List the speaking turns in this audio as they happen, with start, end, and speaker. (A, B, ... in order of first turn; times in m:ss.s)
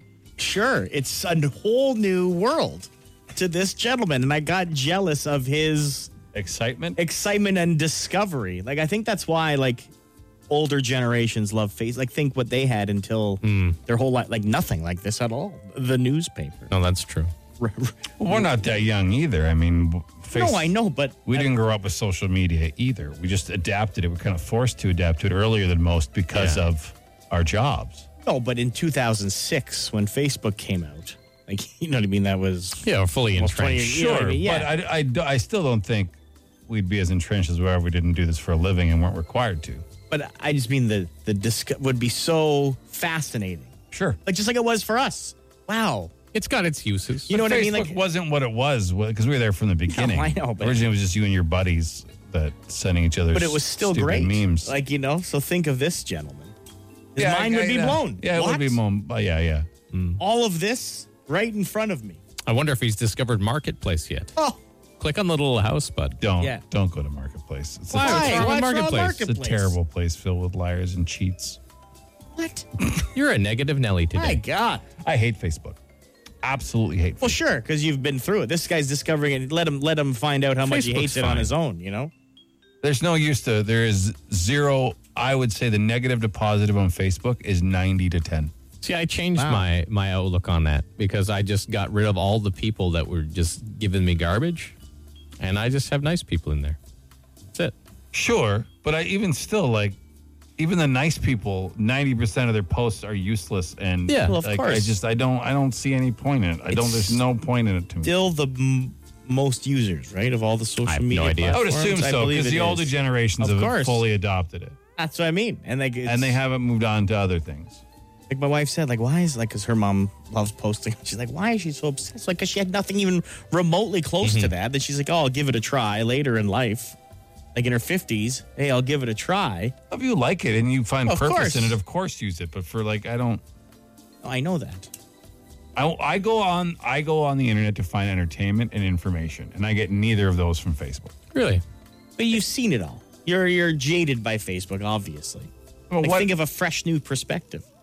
0:00.4-0:06.1 A
0:06.3-0:07.0 B
0:07.0-0:09.9 A
0:10.5-0:16.7 A
0:13.4-0:13.8 C
0:16.7-0:17.3 C
0:17.6-0:18.7 A
0:18.2-0:28.1 B
0:20.3-0:21.6 A
0:26.3-0:26.6 C
0:28.2-0:34.7 A
0:32.8-0:33.9 C
0:33.8-0:36.2 B
0:36.7-0:39.8 B
0:40.1-0:43.7 A
0:43.9-0:44.2 B
0:44.2-0:46.1 A
0:46.3-0:47.4 C
0:47.3-0:54.7 B
0:47.3-0:48.0 A
0:49.9-0:50.9 A
0:53.3-0:56.5 A
0:57.1-0:58.8 A
0:57.2-0:59.7 B
0:59.9-1:00.2 C
1:00.2-1:02.2 A
1:02.4-1:04.3 C
1:05.0-1:06.2 C
1:06.2-1:11.6 B
1:07.9-1:09.2 C
1:07.9-1:09.7 A
1:12.4-1:12.6 A
1:13.1-1:14.4 C
1:14.1-1:14.8 A
1:15.0-1:15.8 B
1:16.4-1:17.4 B
1:17.2-1:22.1 A
1:20.6-1:21.5 C
1:22.8-1:28.5 B
1:28.8-1:34.7 C
1:29.4-1:29.6 A
1:35.4-1:36.8 C
1:38.1-1:40.0 B
1:40.6-1:48.1 B
1:44.1-1:44.4 C
1:44.2-1:45.0 A
1:46.7-1:47.2 A
1:48.0-1:54.0 A
1:50.8-1:51.6 C
1:51.5-1:54.8 B
1:55.0-1:56.4 A
1:56.0-1:57.8 B
1:58.3-2:07.0 A
2:04.2-2:04.5 C
2:07.5-2:09.7 A
2:09.9-2:13.4 B
2:11.0-2:11.8 A
2:14.2-2:14.9 A
2:15.8-2:21.1 B
2:21.3-2:21.6 C
2:22.2-2:25.5 A
2:25.9-2:26.3 B
2:26.0-2:27.6 A